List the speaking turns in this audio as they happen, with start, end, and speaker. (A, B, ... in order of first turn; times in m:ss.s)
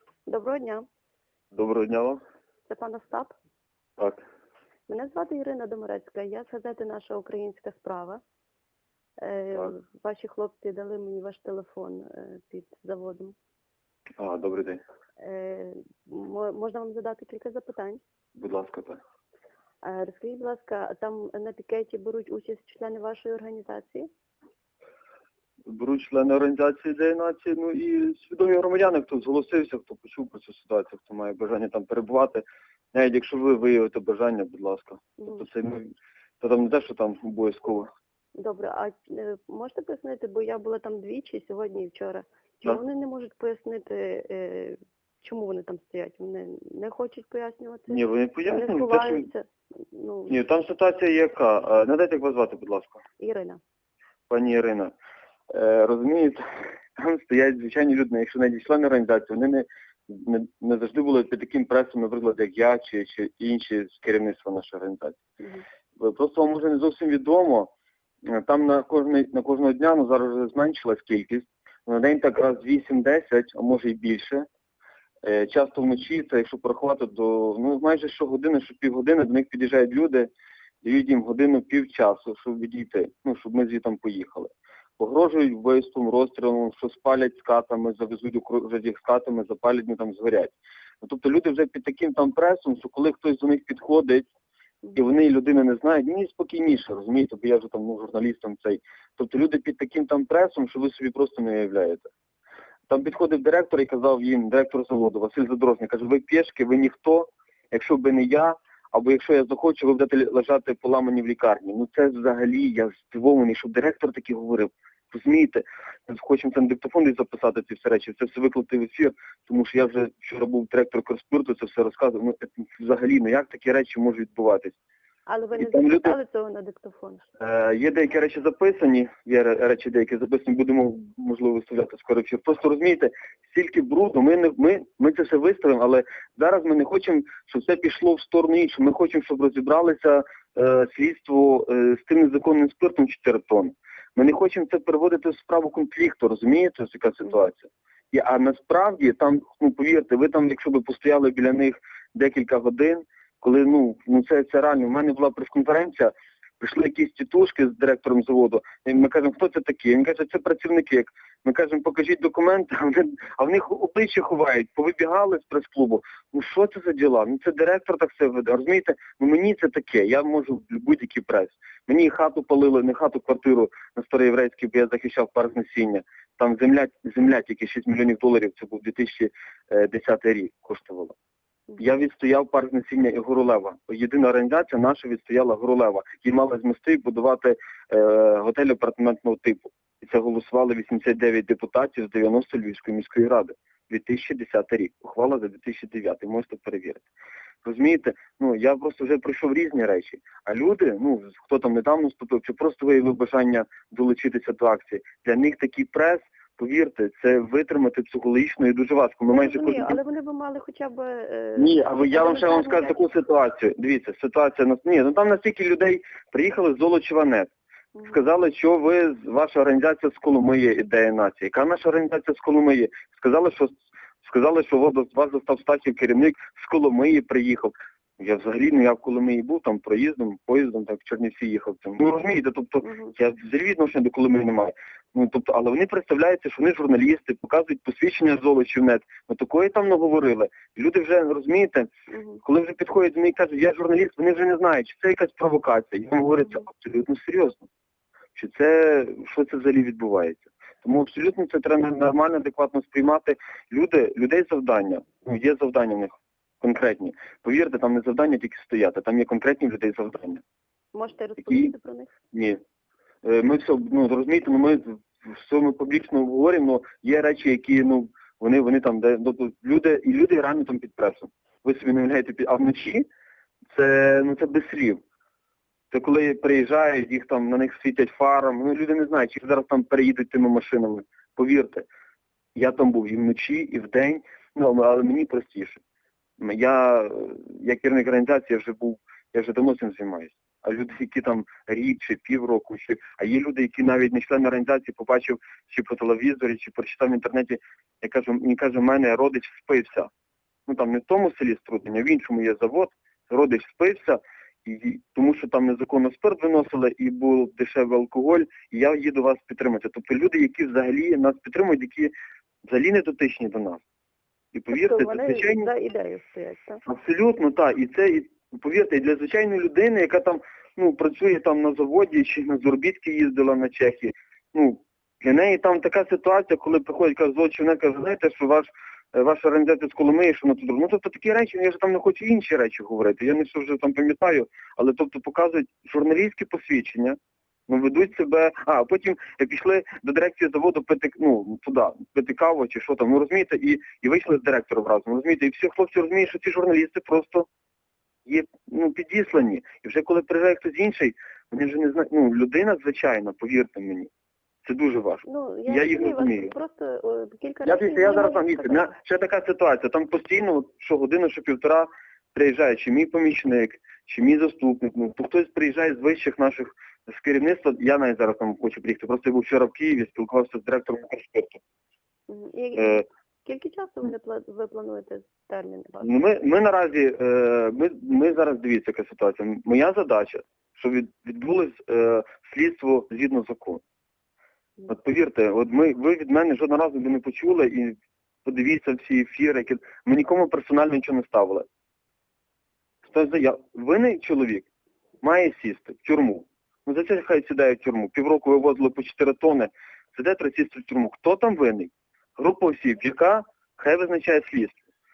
0:00.3-0:00.8 A
0:01.5-0:02.2 B
0:02.7-0:03.3 A
0:04.9-0:08.2 A
0:09.2-0:13.4 A
0:14.2-0:14.8 B
0:15.2-0:18.0 A
0:18.4-0:19.0 B
0:19.8-0:24.1 A
0:25.7-0:37.9 B
0:35.2-0:35.5 A
0:38.4-0:50.4 A
0:47.9-0:49.3 B
0:50.3-0:53.0 B
0:53.2-0:53.6 A
0:54.3-0:54.9 B
0:55.5-1:05.2 B
1:06.0-1:07.7 B
1:08.2-1:14.4 B
1:15.2-1:20.3 B
1:20.8-1:34.3 B
1:35.0-1:42.1 B
1:42.9-2:04.8 B
2:05.3-2:07.2 A
2:05.6-2:06.2 B
2:07.4-3:01.2 B
3:01.8-3:17.1 B
3:17.6-3:30.0 B
3:29.3-3:33.0 A
3:31.6-3:37.5 B
3:38.0-3:38.2 A
3:38.0-4:01.9 B
3:52.8-3:53.1 A
4:02.1-4:02.4 A
4:02.4-4:07.7 B
4:08.4-4:20.4 B
4:20.9-4:22.1 A
4:21.4-4:21.7 B
4:22.3-4:22.6 B
4:23.2-4:33.1 B
4:33.7-4:35.0 B
4:35.9-4:41.9 B
4:42.6-4:45.8 B
4:46.4-5:00.1 B
5:00.7-5:12.1 B
5:12.7-5:13.8 B
5:14.5-5:15.7 B
5:14.7-5:16.8 A
5:16.9-5:37.2 B
5:37.7-5:47.5 B
5:48.3-5:54.1 B
5:54.6-5:56.5 B
5:55.3-5:58.9 A
5:57.6-6:11.6 B
6:12.3-6:16.2 A
6:12.8-6:13.0 B
6:16.0-6:23.8 B
6:24.9-6:31.7 B
6:33.0-6:34.7 B
6:35.2-6:44.8 B